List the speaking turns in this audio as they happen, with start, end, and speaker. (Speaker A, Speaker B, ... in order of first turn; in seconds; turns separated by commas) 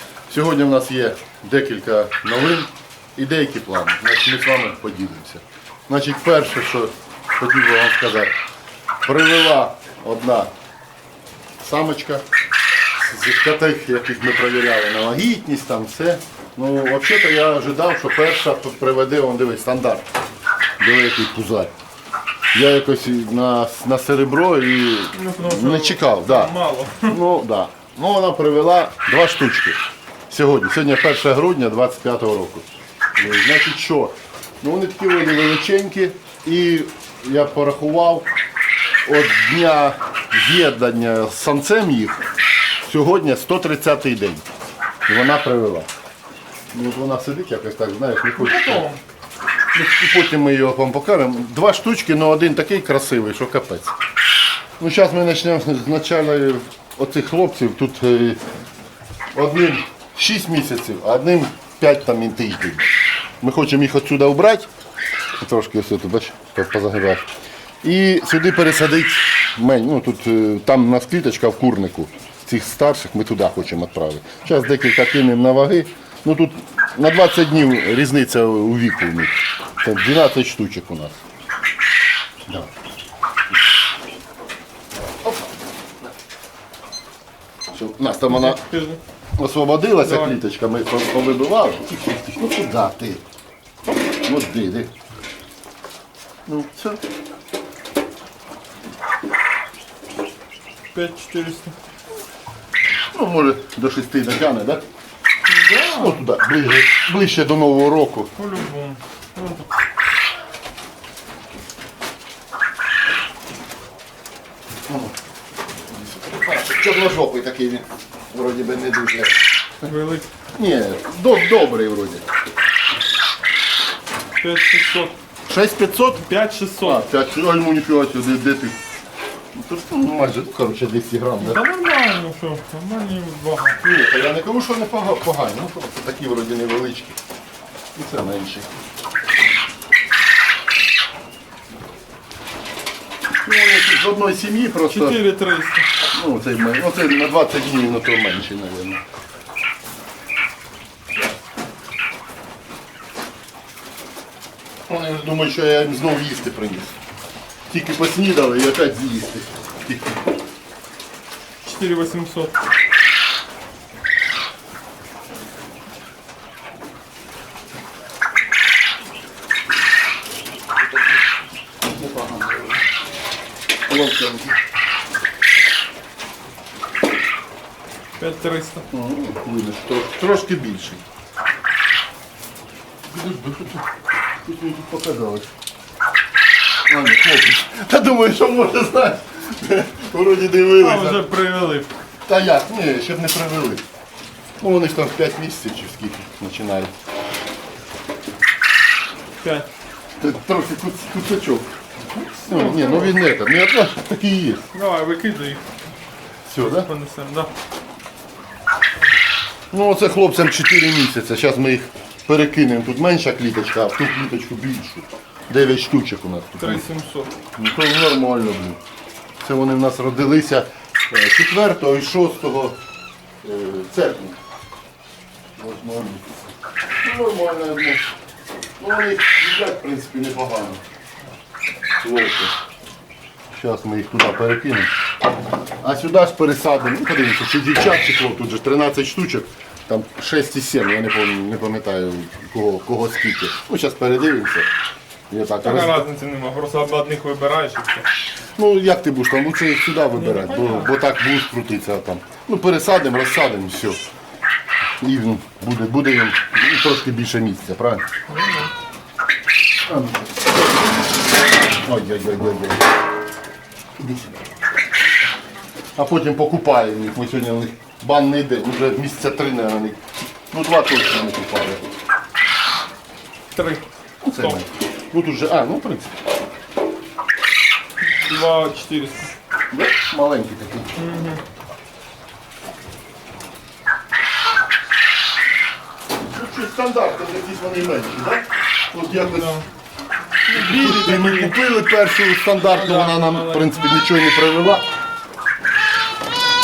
Speaker A: 0.3-8.3, Speaker A: 9.0-10.5, Speaker A: 11.6-12.2, Speaker A: 12.9-20.1, Speaker A: 20.8-21.7, Speaker A: 22.5-26.5, Speaker B: 25.1-27.2, Speaker A: 27.1-29.8, Speaker A: 30.3-38.3, Speaker A: 39.0-42.2, Speaker A: 42.8-44.4, Speaker A: 45.1-45.9, Speaker A: 46.7-48.9, Speaker B: 48.4-49.0, Speaker A: 49.7-53.9, Speaker A: 54.8-58.4, Speaker A: 59.3-62.9, Speaker A: 63.4-64.7, Speaker A: 65.4-67.2, Speaker A: 67.8-81.2, Speaker A: 85.2-86.1, Speaker A: 87.7-88.6, Speaker B: 88.3-89.0, Speaker A: 89.4-93.2, Speaker B: 90.0-90.3, Speaker A: 94.2-94.9, Speaker A: 96.5-97.0, Speaker B: 100.9-101.7, Speaker A: 103.1-104.8, Speaker B: 105.5-106.2, Speaker A: 105.9-108.3, Speaker B: 108.3-109.7, Speaker A: 114.9-115.1, Speaker A: 115.9-119.5, Speaker B: 119.8-120.3, Speaker A: 120.6-122.2, Speaker B: 124.4-125.1, Speaker A: 125.5-126.2, Speaker B: 126.2-127.0, Speaker A: 126.8-128.8, Speaker A: 129.5-131.6, Speaker B: 131.4-133.8, Speaker A: 133.8-137.2, Speaker A: 137.9-138.7, Speaker A: 143.4-145.2, Speaker B: 144.9-145.9, Speaker A: 146.1-149.0, Speaker A: 154.9-157.0, Speaker A: 157.7-160.3, Speaker B: 161.6-162.5, Speaker A: 171.9-172.8, Speaker A: 173.9-174.6, Speaker B: 178.2-178.8, Speaker A: 178.9-181.0, Speaker A: 183.1-183.9, Speaker A: 184.4-185.5, Speaker A: 186.9-191.2, Speaker B: 190.8-191.9, Speaker A: 192.2-193.8, Speaker A: 194.6-196.9, Speaker B: 199.4-199.7, Speaker A: 200.2-204.7, Speaker B: 202.4-203.2, Speaker B: 204.7-205.6, Speaker A: 206.4-206.9, Speaker B: 206.7-207.5, Speaker A: 209.7-216.8, Speaker B: 216.6-217.3, Speaker A: 217.6-218.8, Speaker A: 219.4-222.8, Speaker A: 223.4-224.4, Speaker A: 225.6-226.5, Speaker A: 227.0-228.1, Speaker A: 228.8-230.8, Speaker A: 232.0-232.5, Speaker A: 233.5-234.9, Speaker A: 235.8-244.7, Speaker A: 245.3-246.0, Speaker B: 245.6-248.1, Speaker A: 248.6-254.0, Speaker B: 250.2-250.9, Speaker A: 255.0-258.1, Speaker B: 258.3-258.7, Speaker A: 259.9-260.9, Speaker A: 261.7-262.9, Speaker A: 264.0-264.5, Speaker A: 265.9-270.0, Speaker A: 270.5-271.8, Speaker B: 273.5-273.8, Speaker A: 274.2-276.1, Speaker B: 278.0-279.3, Speaker A: 279.7-280.9, Speaker B: 280.9-281.4, Speaker A: 286.3-289.6, Speaker B: 289.2-289.6, Speaker B: 290.5-291.6, Speaker A: 290.5-294.9, Speaker B: 292.6-293.9